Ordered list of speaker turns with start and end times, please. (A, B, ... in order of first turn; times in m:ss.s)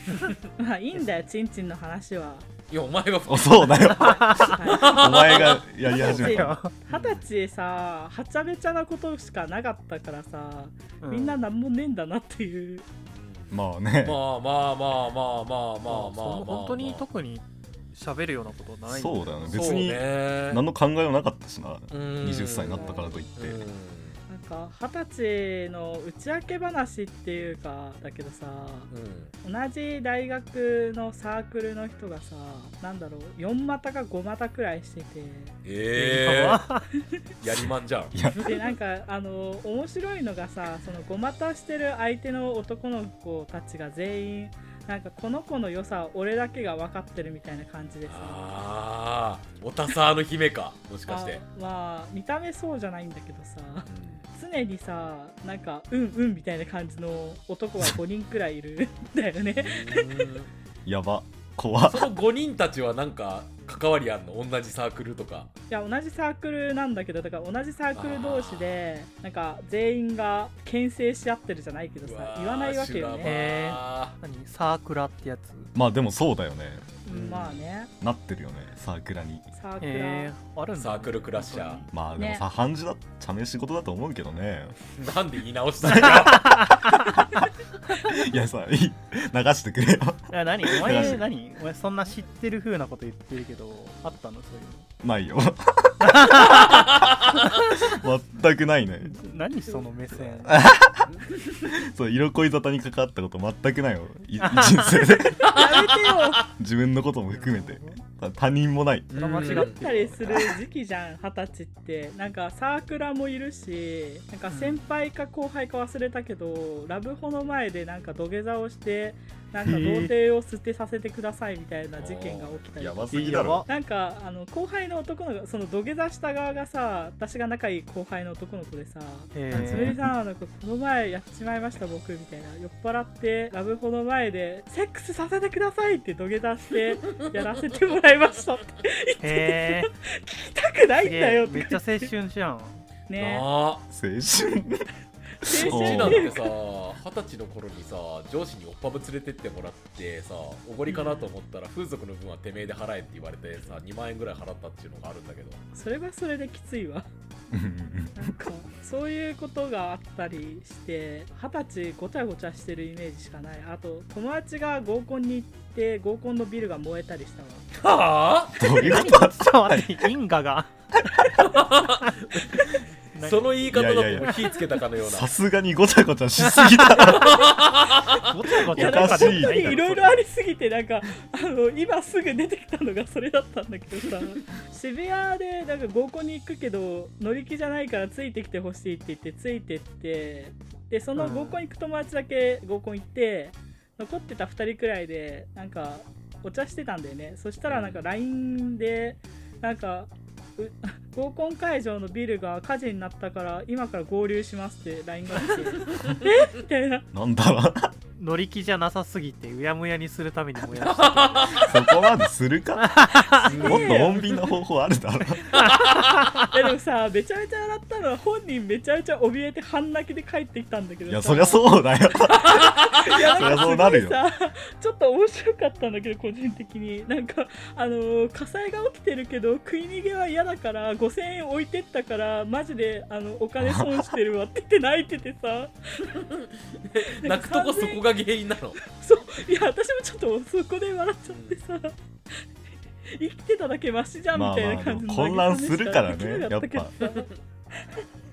0:00.6-0:02.5 A
0:02.7-0:05.6 B
0:03.3-0:06.6 C
0:03.9-0:04.6 D
0:04.3-0:12.8 A
0:05.8-0:06.7 D
0:06.9-0:07.2 B
0:11.0-0:11.4 D
0:13.1-0:17.0 B
0:13.5-0:14.2 C
0:15.9-0:19.9 D
0:18.9-0:23.6 C
0:19.5-0:20.6 B
0:21.9-0:24.2 B
0:22.7-0:23.2 A
0:24.3-0:28.9 A
0:28.9-0:29.3 B
0:29.4-0:35.6 A
0:35.6-0:36.6 B
0:35.9-0:36.9 D
0:37.4-0:38.3 B
0:38.1-0:38.4 C
0:38.4-0:48.5 A
0:48.1-0:51.4 B
0:51.1-1:00.3 A
0:53.9-0:54.2 B
0:59.6-1:00.5 B
1:00.8-1:02.1 C
1:01.8-1:05.5 B
1:05.7-1:13.4 A
1:08.0-1:08.8 B
1:12.0-1:14.2 B
1:13.2-1:15.7 D
1:15.7-1:16.9 C
1:17.0-1:17.9 A
1:17.1-1:17.6 B
1:18.0-1:19.5 C
1:19.5-1:20.3 A
1:19.8-1:21.9 D
1:20.7-1:21.8 B
1:21.9-1:24.8 C
1:22.2-1:22.4 A
1:25.0-1:26.7 B
1:25.8-1:26.4 C
1:26.3-1:26.8 D
1:28.0-1:31.2 C
1:30.3-1:34.9 D
1:35.0-1:36.9 C
1:36.0-1:36.9 D
1:37.4-1:39.1 C
1:39.0-1:40.6 D
1:40.4-1:41.1 C
1:41.6-1:45.6 C
1:44.4-1:45.2 D
1:45.4-1:46.5 A
1:45.4-1:45.8 B
1:46.5-1:49.2 C
1:47.3-1:48.0 D
1:49.1-1:49.8 B
1:49.1-1:50.5 D
1:49.5-2:22.1 A
1:54.5-1:54.9 D
1:59.6-2:00.1 D
1:59.7-2:00.0 C
2:02.0-2:02.6 B
2:02.8-2:03.6 C
2:03.1-2:03.7 D
2:09.3-2:09.9 D
2:09.5-2:10.1 C
2:19.2-2:19.9 D
2:21.0-2:22.8 D
2:23.1-2:23.5 A
2:23.2-2:23.8 B
2:23.9-2:24.9 C
2:25.4-2:26.3 C
2:25.4-2:26.5 A
2:25.5-2:35.6 B
2:30.9-2:31.3 A
2:35.7-2:37.1 A
2:37.5-2:38.3 C
2:38.2-2:47.7 A
2:47.8-2:48.8 B
2:48.6-2:50.1 C
2:48.6-2:50.7 D
2:51.4-2:52.5 B
2:53.1-2:54.5 D
2:53.2-2:55.3 B
2:53.7-2:54.4 C
2:55.0-2:57.5 C
2:56.4-2:57.0 D
2:57.0-2:58.3 B
2:58.1-3:00.2 D
2:58.7-2:59.8 C
2:58.7-3:27.0 A
3:11.2-3:11.6 D
3:17.7-3:18.0 B
3:27.1-3:27.9 C
3:28.2-3:31.7 D
3:30.8-3:31.7 B
3:31.6-3:35.6 C
3:32.8-3:33.5 D
3:33.3-3:34.5 A
3:33.4-3:34.3 B
3:35.6-3:41.7 A
3:35.6-3:36.3 B
3:41.1-3:44.2 C
3:42.2-3:56.2 A
3:53.6-3:54.0 C
3:56.8-3:58.8 B
3:57.2-3:58.0 A
3:58.9-4:02.4 A
4:01.3-4:01.6 B
4:03.1-4:08.0 A
4:04.3-4:07.0 C